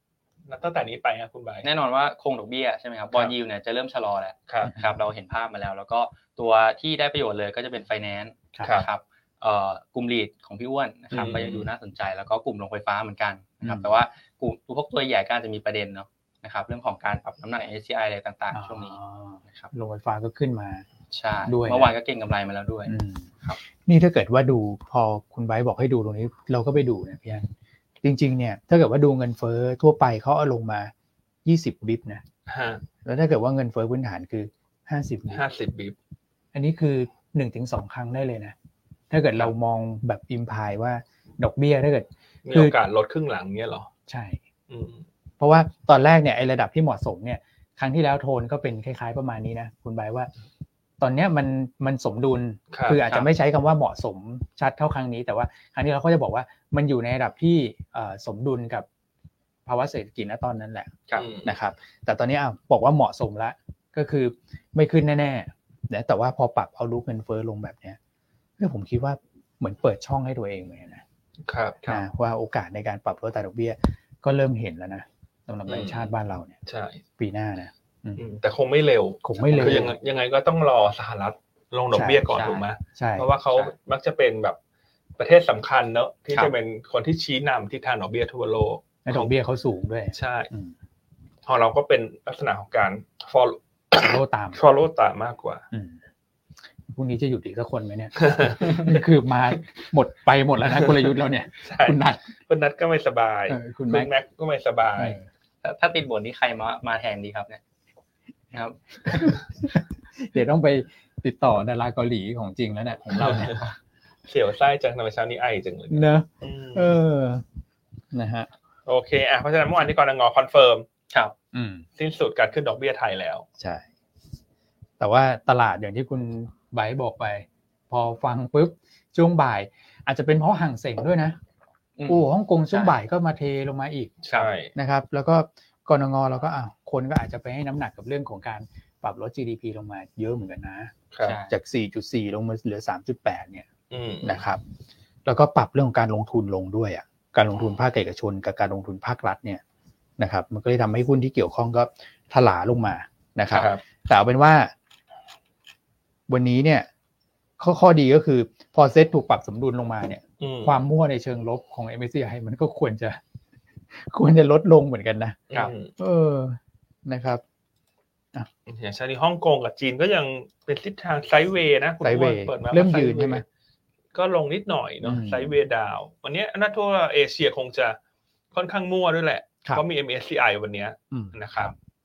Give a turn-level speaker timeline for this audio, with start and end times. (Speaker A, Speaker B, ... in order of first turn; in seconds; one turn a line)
Speaker A: 0.5-1.6
Speaker B: 1.6-19.0
Speaker C: 4.7-5.0
Speaker A: 8.6-8.9
Speaker A: 11.1-11.7
Speaker C: 13.6-13.9
Speaker C: 18.5-20.8
Speaker B: 21.1-23.6
Speaker C: 21.4-21.9
Speaker C: 22.9-27.5
Speaker C: 28.0-30.9
Speaker C: 31.4-32.2
Speaker A: 32.5-32.8
Speaker C: 33.0-35.4
Speaker A: 35.3-36.0
Speaker C: 36.5-38.5
Speaker C: 39.1-42.8
Speaker A: 42.4-43.9
Speaker C: 44.1-44.4
Speaker A: 44.7-45.0
Speaker C: 45.4-50.3
Speaker C: 51.0-58.9
Speaker A: 52.7-53.0
Speaker C: 59.6-68.0
Speaker A: 61.2-61.5
Speaker C: 68.6-71.0
Speaker A: 71.4-72.0
Speaker C: 71.9-76.5
Speaker A: 75.7-76.1
Speaker A: 76.7-77.0
Speaker C: 77.2-78.2
Speaker A: 78.2-84.6
Speaker C: 79.2-79.9
Speaker C: 81.9-82.3
Speaker B: 82.3-82.6
Speaker C: 82.9-83.3
Speaker A: 85.2-89.3
Speaker C: 89.0-90.7
Speaker A: 90.1-90.5
Speaker A: 91.5-95.6
Speaker C: 94.0-94.6
Speaker C: 95.7-96.0
Speaker C: 96.9-102.3
Speaker A: 98.2-98.8
Speaker A: 101.6-105.2
Speaker C: 103.5-104.1
Speaker C: 105.0-105.2
Speaker B: 105.6-107.6
Speaker B: 108.5-109.4
Speaker C: 109.0-113.6
Speaker A: 113.2-113.6
Speaker A: 114.3-117.0
Speaker C: 115.9-117.4
Speaker C: 118.1-118.5
Speaker A: 118.8-120.8
Speaker C: 121.5-121.8
Speaker A: 122.0-123.5
Speaker C: 123.6-123.8
Speaker C: 125.0-131.4
Speaker B: 132.0-132.9
Speaker C: 132.1-134.2
Speaker A: 134.2-134.7
Speaker C: 134.7-140.9
Speaker B: 141.2-141.5
Speaker C: 141.5-143.7
Speaker A: 143.9-144.4
Speaker C: 144.2-144.6
Speaker C: 145.2-149.6
Speaker C: 150.2-154.7
Speaker A: 153.5-153.8
Speaker C: 156.3-156.9
Speaker C: 157.6-163.2
Speaker A: 160.4-160.8
Speaker C: 163.9-167.4
Speaker A: 165.5-165.9
Speaker A: 168.7-173.4
Speaker C: 172.0-173.4
Speaker A: 174.1-178.0
Speaker C: 175.0-175.6
Speaker A: 178.5-181.7
Speaker C: 181.1-181.4